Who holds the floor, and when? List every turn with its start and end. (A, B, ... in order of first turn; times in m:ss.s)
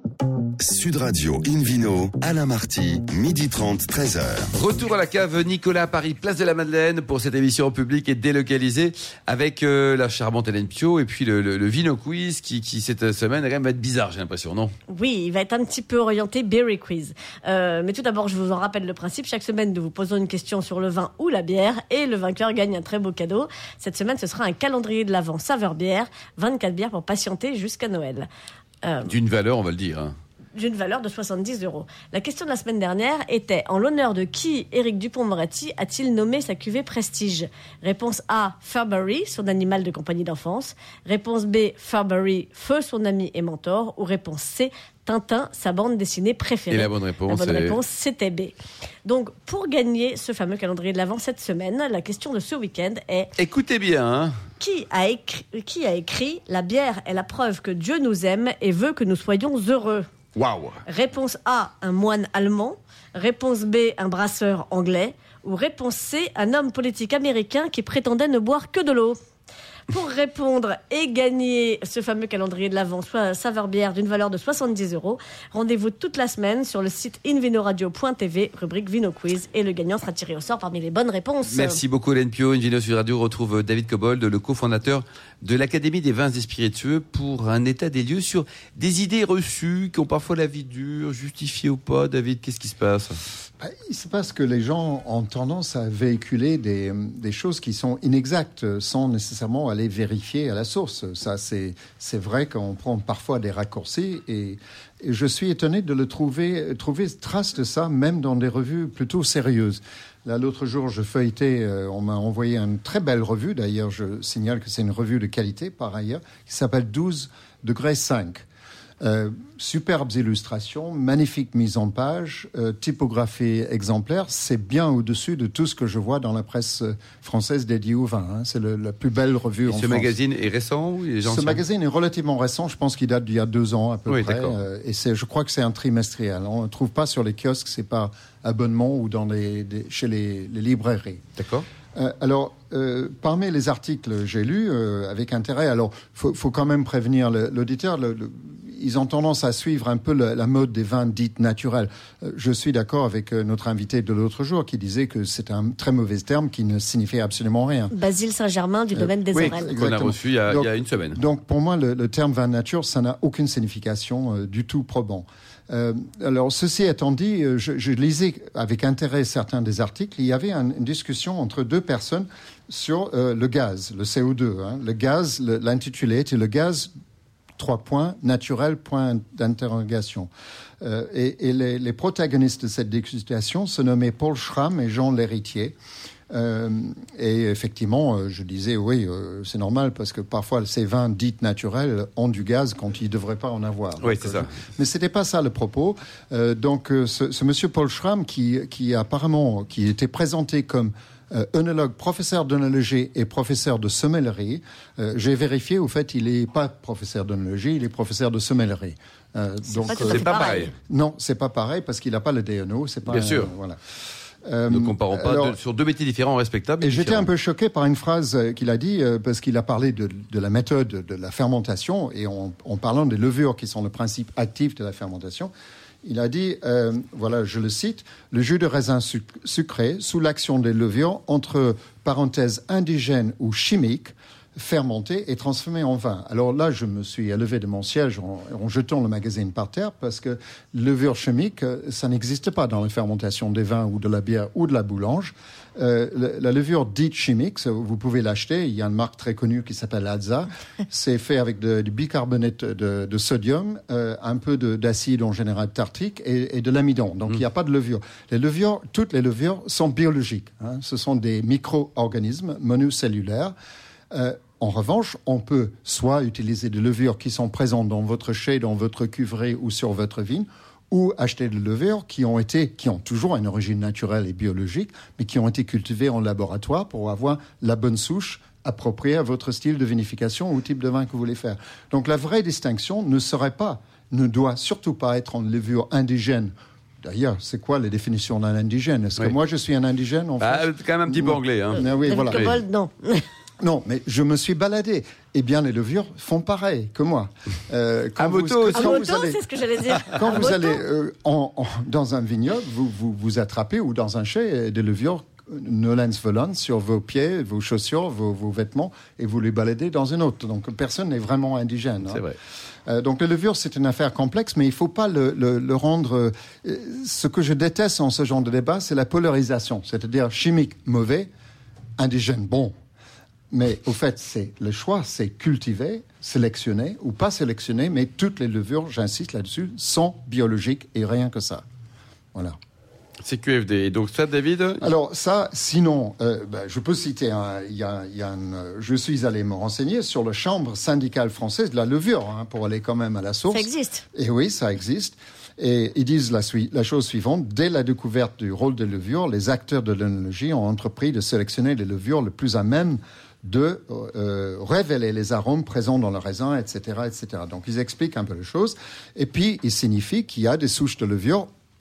0:00.6-0:04.5 A
0:04.6-0:14.7 B
0:14.9-0:28.3 C
0:28.8-0:29.1 C
0:29.0-0:30.1 B
0:30.5-0:48.5 C
0:46.7-0:47.8 B
0:49.0-0:53.3 C
0:53.4-0:54.4 B
0:54.6-1:00.1 C
1:00.4-1:00.8 B
1:00.8-1:09.2 C
1:09.9-1:21.8 C
1:21.5-1:33.2 B
1:33.6-1:58.4 D
1:59.0-2:10.1 D
2:09.7-2:11.6 B
2:11.2-2:21.2 D
2:14.1-2:14.5 B
2:21.4-2:21.7 B
2:21.9-2:37.9 D
2:37.9-2:39.7 C
2:38.9-2:56.9 D
2:39.3-2:41.2 B
2:57.6-3:00.3 D
3:00.8-3:05.8 D
3:06.3-3:33.8 D
3:14.0-3:14.5 B
3:29.8-3:30.7 C
3:29.9-3:30.7 B
3:33.1-3:33.5 B
3:34.4-3:35.6 D
3:34.7-3:37.3 B
3:36.8-3:45.5 D
3:46.0-4:23.5 D
4:24.1-4:52.6 D
4:50.4-4:52.6 B
4:51.8-4:53.2 C
4:53.6-4:59.4 D
4:58.2-4:59.1 B
4:58.7-5:00.8 C
4:59.9-5:00.2 B
5:00.1-5:12.2 D
5:12.0-5:12.4 B
5:12.9-5:21.3 D
5:22.0-5:22.7 D
5:23.5-5:31.6 D
5:33.2-5:34.9 B
5:34.8-6:01.5 D
5:43.5-5:44.0 C